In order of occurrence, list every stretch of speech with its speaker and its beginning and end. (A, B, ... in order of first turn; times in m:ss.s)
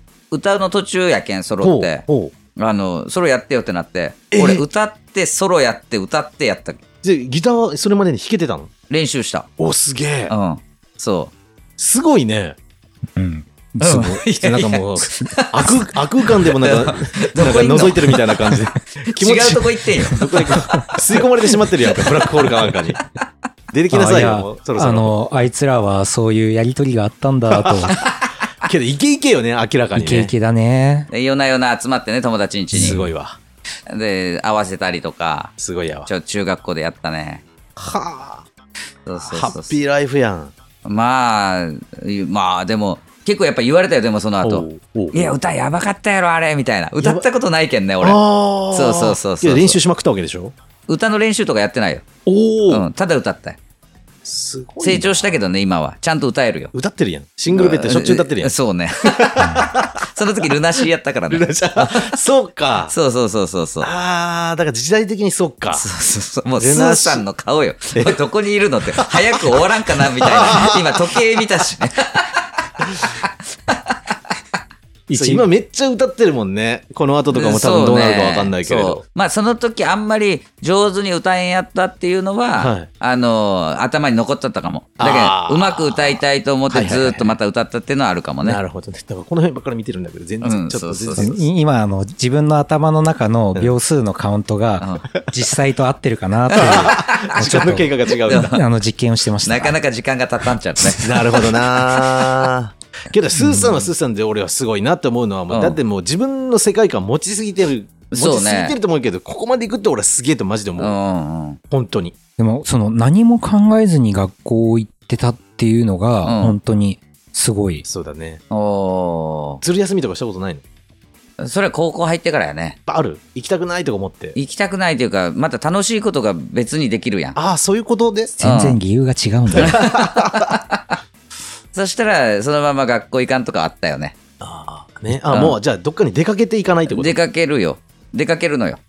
0:00.3-0:02.0 A
0:01.6-0:02.3 B
0:02.6-0:06.8 A
0:04.3-0:04.6 B
0:07.0-0:08.7 B
0:08.9-0:09.5 A
0:09.6-0:10.4 B
0:10.3-0:11.3 A
0:11.8-0:12.6 B
0:13.2-0:14.2 C
0:13.8-0:18.2 A
0:14.4-0:23.0 B
0:19.2-0:20.9 A
0:20.6-0:20.9 C
0:23.7-0:25.1 B
0:23.9-0:28.0 C
0:27.5-0:28.1 B
0:28.6-0:30.3 B
0:30.0-0:31.1 C
0:31.1-0:33.0 A
0:32.7-0:33.4 B
0:32.8-0:33.0 C
0:33.9-0:35.5 A
0:35.6-0:36.1 B
0:36.1-0:37.4 A
0:37.8-0:38.5 B
0:39.1-0:39.8 A
0:39.2-0:40.5 B
0:40.8-0:48.2 A
0:44.4-0:45.4 B
0:47.0-0:47.2 B
0:48.0-0:50.5 B
0:48.7-0:49.8 A
0:50.9-0:52.0 A
0:52.3-0:52.9 B
0:52.7-0:53.6 A
0:54.2-0:55.4 B
0:54.8-0:56.7 A
0:56.7-1:00.5 B
0:57.5-1:02.2 A
0:59.4-0:59.7 C
1:01.3-1:02.9 B
1:02.9-1:03.9 A
1:03.8-1:05.9 B
1:05.7-1:14.0 A
1:06.6-1:07.3 B
1:08.0-1:08.2 B
1:08.9-1:09.6 B
1:10.2-1:11.4 B
1:15.1-1:15.5 C
1:15.1-1:19.0 B
1:17.3-1:28.6 A
1:22.5-1:22.9 B
1:25.0-1:27.4 B
1:28.4-1:31.5 B
1:30.4-1:31.3 A
1:31.2-1:39.8 C
1:34.8-1:35.0 A
1:36.5-1:37.7 A
1:36.6-1:38.6 B
1:38.3-1:38.6 A
1:39.4-1:42.5 A
1:40.8-1:51.0 B
1:43.4-1:43.8 C
1:45.5-1:45.8 A
1:48.1-1:48.8 A
1:50.8-1:51.6 A
1:51.7-1:52.1 B
1:52.4-1:57.8 C
1:56.2-1:56.6 A
1:57.9-1:58.4 B
1:58.5-1:59.6 A
1:59.6-2:00.6 B
2:01.4-2:02.8 A
2:02.9-2:04.4 B
2:04.4-2:07.4 A
2:07.4-2:08.4 B
2:08.4-2:09.8 C
2:08.4-2:08.8 A
2:09.6-2:10.5 B
2:09.6-2:11.0 A
2:11.7-2:14.1 A
2:14.4-2:17.2 B
2:15.2-2:15.6 A
2:16.9-2:18.8 A